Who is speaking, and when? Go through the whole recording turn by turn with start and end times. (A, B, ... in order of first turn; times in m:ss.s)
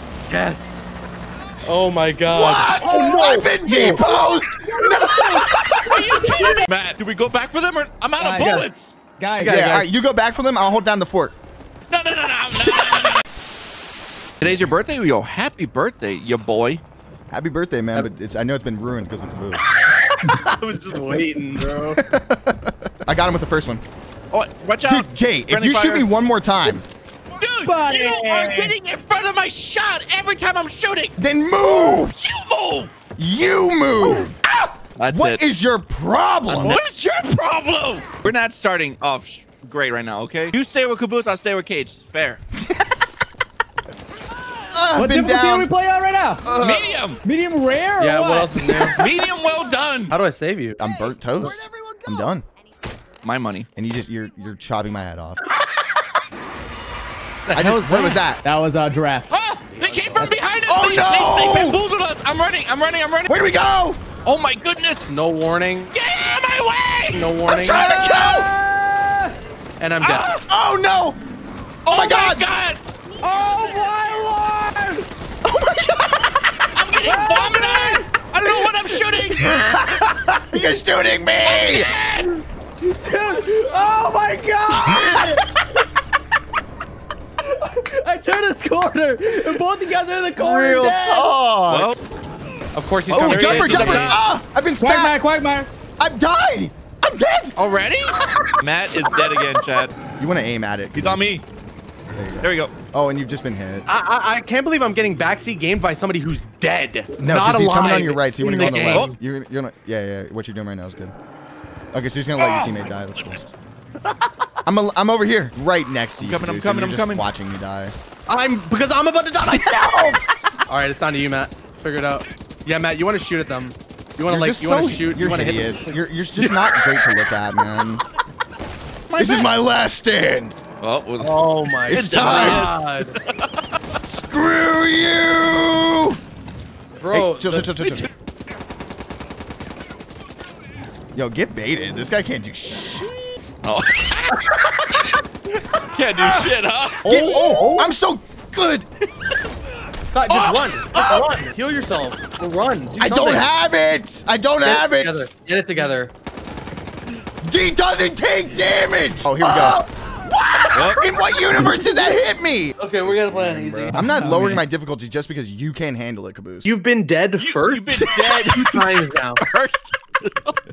0:00.3-0:01.0 A
0:01.6-0:04.1 A
0:02.3-0:06.2 B
0:02.8-0:03.9 C
0:05.9-0:09.0 D
0:06.3-0:06.7 C
0:08.2-0:09.9 C
0:09.4-0:11.3 B
0:11.9-0:13.2 D
0:14.4-0:16.8 D
0:17.3-0:19.6 B
0:20.2-0:22.0 A
0:22.0-0:23.8 B
0:24.3-0:26.1 D
0:24.8-0:26.8 B
0:27.4-0:32.9 D
0:27.6-0:28.8 C
0:31.2-0:32.2 B
0:33.2-0:34.5 B
0:35.0-0:35.4 D
0:35.1-0:36.8 B
0:36.5-0:42.4 D
0:42.5-0:43.0 B
0:44.7-0:45.7 B
0:44.9-0:46.5 C
0:46.4-0:47.0 B
0:46.6-0:47.2 D
0:47.2-0:48.9 C
0:48.0-0:49.0 A
0:49.0-0:50.2 D
0:50.1-0:50.8 A
0:50.8-0:52.4 B
0:53.2-0:53.7 D
0:53.8-0:55.4 B
0:57.5-0:58.2 D
0:57.5-0:58.4 B
0:58.4-0:59.3 C
0:59.3-1:03.4 D
1:00.7-1:01.8 B
1:03.3-1:04.0 B
1:04.2-1:05.2 D
1:05.1-1:05.9 A
1:05.9-1:07.4 D
1:07.1-1:07.8 A
1:07.4-1:08.5 B
1:07.8-1:09.3 C
1:09.8-1:10.3 A
1:10.0-1:10.4 D
1:10.5-1:11.2 B
1:11.8-1:12.5 B
1:11.9-1:12.8 D
1:13.2-1:15.0 C
1:15.4-1:16.3 B
1:16.7-1:19.4 D
1:17.0-1:18.1 C
1:19.4-1:21.9 B
1:21.4-1:22.4 D
1:22.8-1:25.4 C
1:24.8-1:25.3 B
1:27.5-1:31.3 C
1:30.4-1:31.9 B
1:31.7-1:32.0 D
1:32.7-1:34.2 A
1:33.1-1:34.2 D
1:33.1-1:35.2 B
1:34.8-1:35.7 C
1:36.0-1:37.5 B
1:37.6-1:39.9 D
1:40.2-1:41.4 B
1:40.9-1:41.4 D
1:42.1-1:43.9 B
1:42.4-1:42.7 D
1:43.9-1:49.1 A
1:47.2-1:51.1 B
1:48.5-1:49.1 D
1:51.9-1:53.5 B
1:52.6-1:53.4 D
1:54.6-1:57.9 B
1:56.2-1:57.3 D
1:58.3-2:06.6 A
1:59.4-2:00.2 B
2:04.3-2:08.0 B
2:09.1-2:09.5 D
2:09.2-2:10.6 B
2:10.8-2:13.5 D
2:11.2-2:13.2 A
2:11.9-2:12.7 B
2:14.0-2:16.2 B
2:17.0-2:17.8 A
2:17.1-2:18.1 B
2:21.1-2:23.1 B
2:23.6-2:25.0 D
2:25.9-2:27.2 D
2:27.0-2:28.8 B
2:27.0-2:27.9 A
2:30.1-2:33.5 A
2:30.3-2:31.3 B
2:33.0-2:35.3 B
2:34.6-2:36.1 A
2:37.4-2:46.7 B
2:39.4-2:39.8 A
2:40.7-2:41.1 D
2:42.8-2:44.6 A
2:46.6-2:49.4 A
2:47.3-2:50.6 D